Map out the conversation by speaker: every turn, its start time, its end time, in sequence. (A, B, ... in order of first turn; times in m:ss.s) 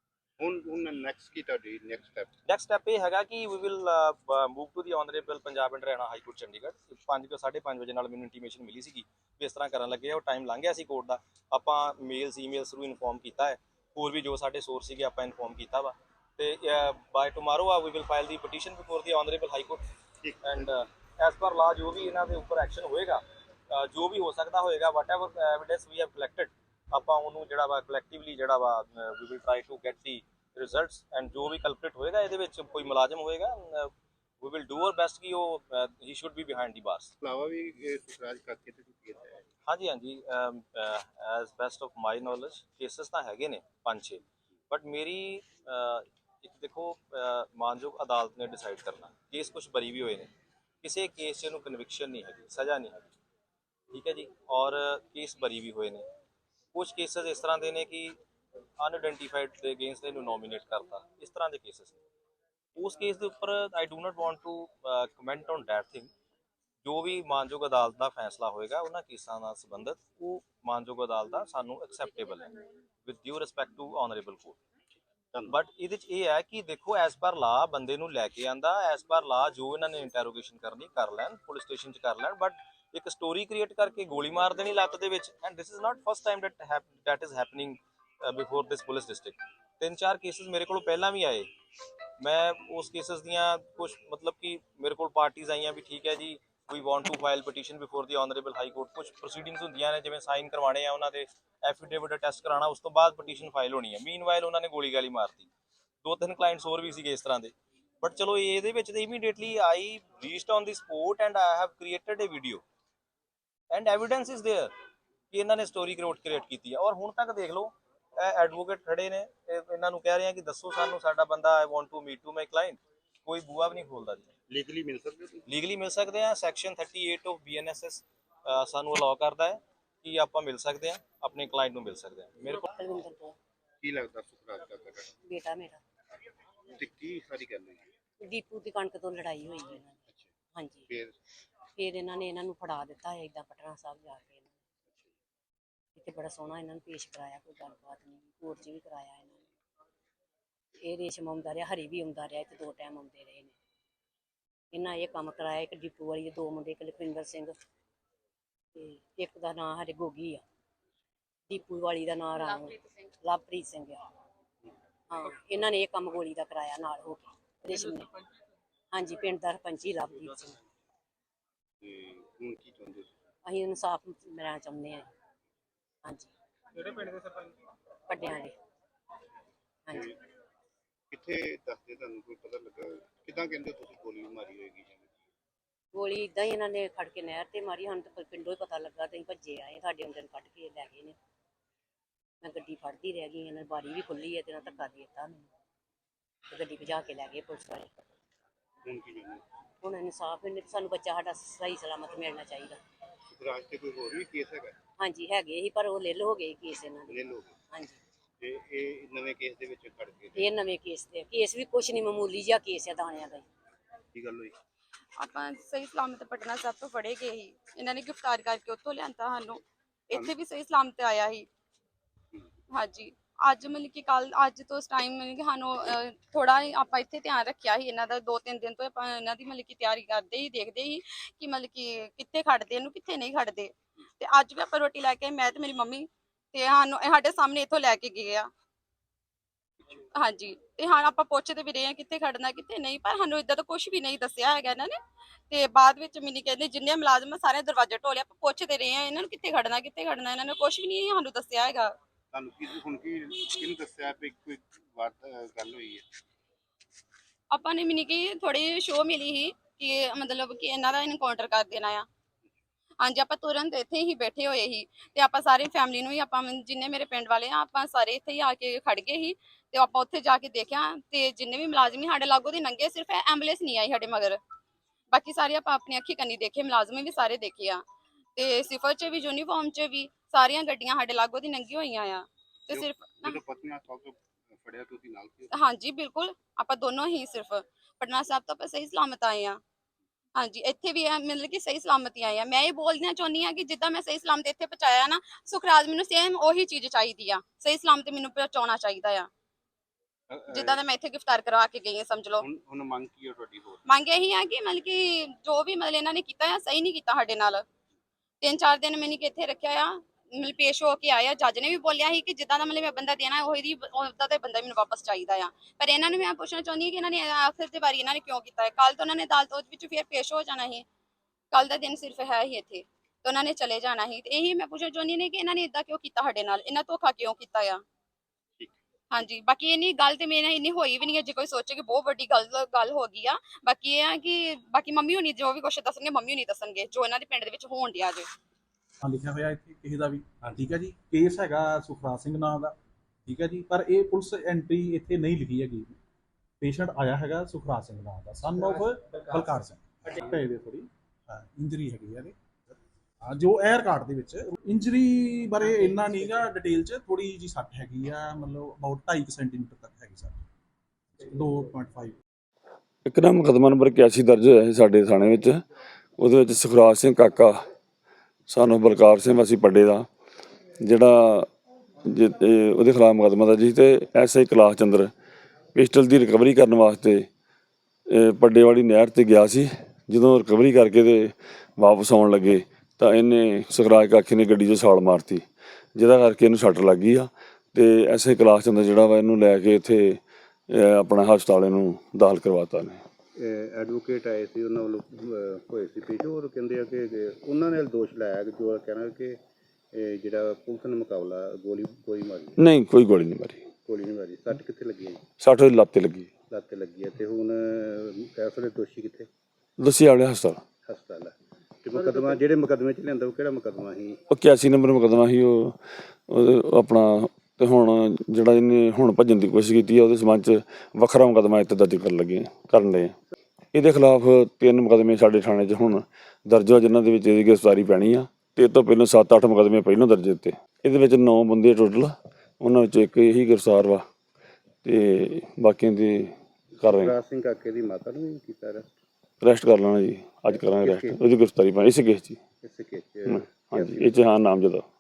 0:00.4-0:02.3 A
0:02.5-0:19.9 B
0:20.2-0:20.6 A
0:20.4-0:33.9 B
0:34.4-0:37.1 B
0:37.2-0:39.4 A
0:39.7-0:50.3 B
0:50.8-0:53.1 B
0:53.9-0:56.0 B
0:56.7-0:58.1 B
0:58.8-1:02.0 B
1:02.8-1:06.1 B
1:06.8-1:12.6 B
1:13.1-1:14.6 B
1:15.5-1:31.5 B
1:32.2-1:45.5 B
1:46.0-1:52.6 B
1:53.7-1:54.7 B
1:55.3-2:04.3 B
2:04.5-2:05.4 A
2:05.5-2:12.7 B
2:12.4-2:13.4 C
2:13.8-2:15.1 A
2:15.2-2:15.8 C
2:16.7-2:17.9 A
2:18.2-2:20.0 C
2:20.6-2:20.9 C
2:20.9-2:21.2 A
2:21.8-2:24.6 C
2:26.0-2:29.5 C
2:30.8-2:33.5 C
2:34.7-2:37.5 C
2:38.8-2:40.4 C
2:41.5-2:44.0 C
2:45.1-2:48.1 C
2:48.9-2:50.6 C
2:51.8-2:53.1 A
2:53.4-2:55.1 C
2:56.0-2:56.3 C
2:58.1-2:58.5 C
2:59.9-3:00.1 C
3:01.1-3:05.1 A
3:05.9-3:11.2 C
3:12.4-3:15.5 C
3:16.5-3:17.9 C
3:18.8-3:19.4 A
3:19.8-3:22.8 C
3:23.3-3:24.8 A
3:25.0-3:28.0 C
3:27.1-3:27.6 A
3:28.4-3:30.5 A
3:30.4-3:33.4 C
3:34.1-3:34.6 A
3:35.2-3:41.5 D
3:42.7-3:58.5 D
4:00.2-4:05.0 D
4:05.5-4:11.9 D
4:12.3-4:16.1 A
4:17.5-4:22.0 D
4:23.0-4:34.4 D
4:35.1-4:37.8 D
4:38.4-4:43.4 D
4:42.7-4:45.5 A
4:45.5-4:49.6 D
4:50.4-4:59.3 D
5:00.3-5:00.8 A
5:00.5-5:02.4 D
5:02.4-5:03.8 A
5:03.9-5:07.6 D
5:08.4-5:20.8 D
5:21.5-5:27.8 D
5:29.1-5:38.3 D
5:39.0-5:46.0 E
5:46.6-6:00.4 E
6:01.2-6:02.2 E
6:03.0-6:05.6 F
6:06.2-6:07.6 F
6:08.5-6:10.1 F
6:10.8-6:11.5 F
6:12.1-6:15.1 F
6:15.7-6:17.3 F
6:18.1-6:25.4 F
6:26.0-6:33.0 F
6:33.4-6:39.4 A
6:39.9-6:42.6 A
6:42.6-6:43.6 F
6:43.9-6:45.2 A
6:45.4-6:46.3 F
6:46.5-6:49.3 A
6:49.8-6:50.6 F
6:50.9-6:54.2 A
6:54.3-7:03.2 F
7:03.7-7:14.0 F
7:14.8-7:17.2 F
7:17.0-7:18.9 A
7:19.4-7:22.4 F
7:20.8-7:21.2 A
7:22.6-7:24.2 A
7:23.3-7:24.8 F